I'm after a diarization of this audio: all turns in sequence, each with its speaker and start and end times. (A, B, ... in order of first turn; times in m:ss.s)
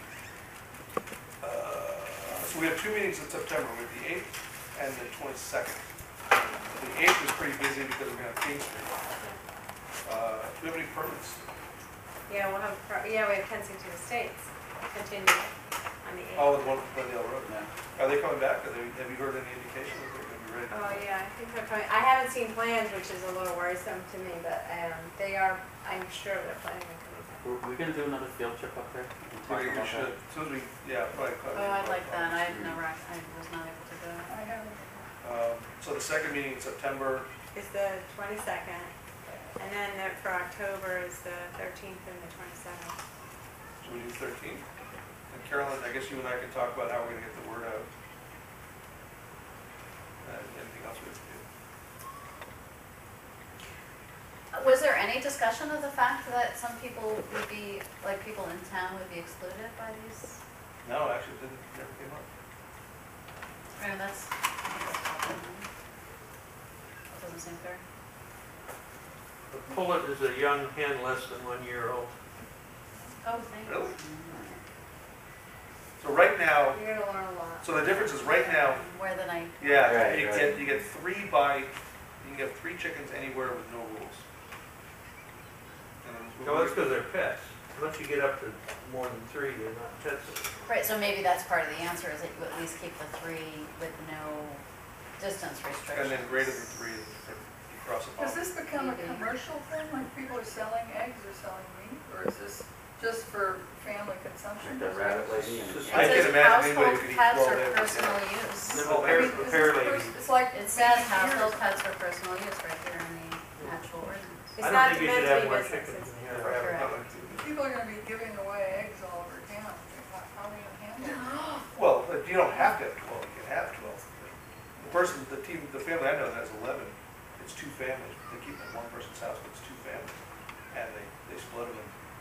0:01.4-0:05.8 A
0:06.7-0:09.0 A
0:10.0-0:11.4 A
0:12.3-0:15.5 B
0:16.0-0:16.9 B
0:16.3-0:21.1 A
0:20.7-0:27.4 B
0:27.4-0:30.1 C
0:29.4-0:32.5 A
0:31.5-0:34.4 D
0:32.5-0:32.8 C
0:34.3-0:35.1 E
0:35.2-0:37.3 A
0:37.5-0:38.9 B
0:39.6-0:43.0 B
0:43.8-0:44.6 A
0:45.3-0:47.9 A
0:50.2-0:51.4 A
0:54.5-1:00.4 D
1:00.8-1:02.3 A
1:03.8-1:05.7 D
1:07.1-1:07.8 D
1:09.5-1:12.1 F
1:13.2-1:14.3 D
1:13.6-1:13.9 A
1:14.2-1:14.6 C
1:16.0-1:16.8 A
1:16.7-1:17.7 B
1:17.6-1:18.8 A
1:17.8-1:20.6 D
1:19.6-1:24.2 A
1:19.8-1:20.6 C
1:26.0-1:26.9 A
1:26.4-1:30.4 F
1:30.6-1:34.6 D
1:35.2-1:36.8 D
1:35.9-1:38.6 A
1:38.2-1:45.4 E
1:38.7-1:39.4 D
1:44.6-1:46.4 C
1:45.4-1:46.3 F
1:45.9-1:48.3 A
1:45.9-1:48.8 D
1:48.7-1:50.2 F
1:48.7-1:51.8 E
1:50.5-1:54.6 D
1:54.6-1:56.2 B
1:54.6-1:57.1 F
1:56.3-1:57.6 A
1:56.5-1:57.0 D
1:57.3-2:01.3 E
2:01.0-2:01.6 D
2:01.7-2:10.1 A
2:10.7-2:11.9 A